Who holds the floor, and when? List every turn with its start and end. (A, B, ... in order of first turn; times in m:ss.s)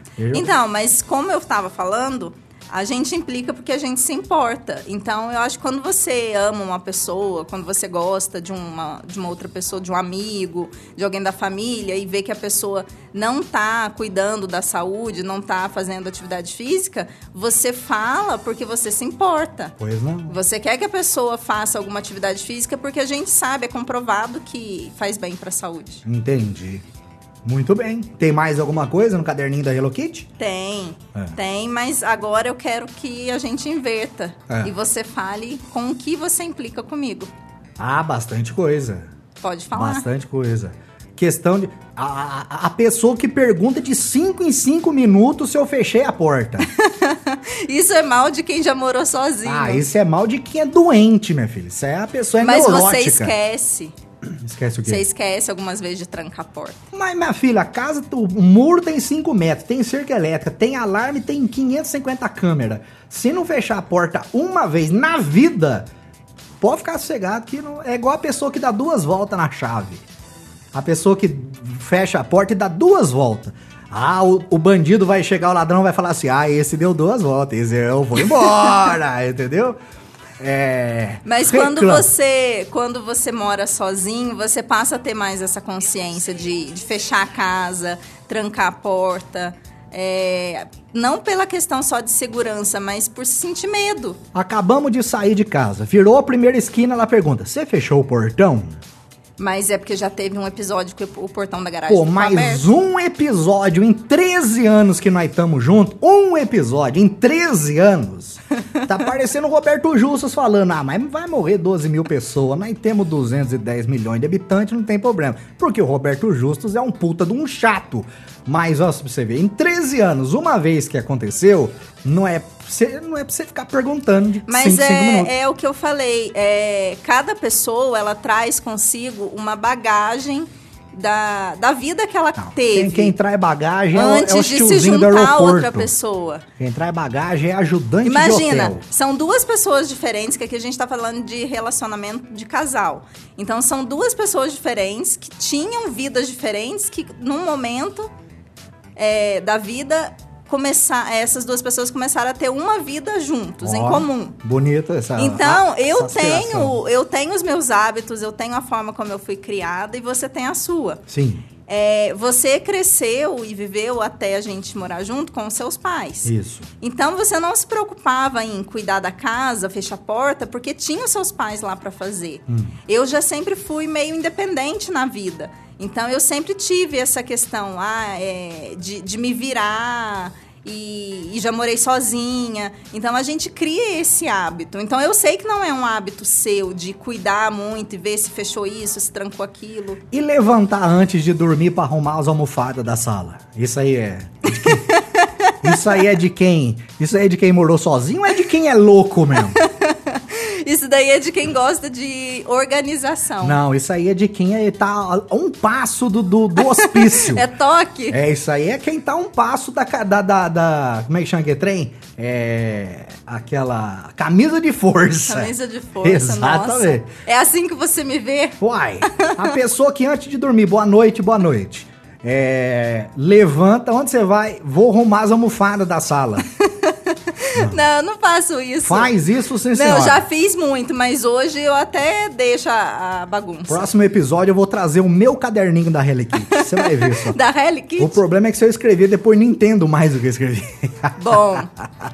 0:00.2-0:00.5 A
0:00.3-0:19.7 B
0:19.8-0:20.4 A
0:20.3-0:26.0 B
0:26.0-0:26.8 A
0:27.4-0:30.3 A
0:30.4-0:37.3 B
0:37.8-0:39.1 A
0:39.4-0:40.0 B
0:39.7-0:46.7 A
0:46.6-0:49.8 B
0:49.4-0:53.3 A
0:52.4-0:53.9 B
0:54.2-0:55.0 A
0:54.8-0:56.8 B
0:56.9-1:05.8 A
1:06.6-1:10.0 A
1:10.7-1:19.8 A
1:20.4-1:22.1 A
1:21.2-1:34.2 B
1:34.3-1:38.8 A
1:39.4-1:42.7 B
1:41.9-2:05.3 A
2:04.5-2:13.1 B
2:12.4-2:15.9 A
2:13.9-2:16.4 B
2:16.6-2:18.8 A
2:18.0-2:28.1 B
2:29.0-2:34.4 B
2:33.6-2:36.8 A
2:35.2-2:41.0 B
2:41.1-2:41.4 A
2:41.7-3:10.0 B
2:46.2-2:46.7 A
2:52.5-2:52.7 A
3:10.1-3:15.0 A
3:14.5-3:15.6 B
3:15.6-3:19.6 A
3:19.5-3:23.6 B
3:23.4-3:27.5 A
3:26.6-3:28.2 B
3:28.1-3:37.1 A
3:35.2-3:39.5 B
3:38.6-3:46.5 A
3:46.5-3:49.2 B
3:47.5-3:47.8 A
3:48.8-3:50.2 A
3:49.7-3:53.9 B
3:53.7-3:57.4 A
3:56.4-3:58.2 B
3:58.0-4:01.5 A
4:01.2-4:01.7 B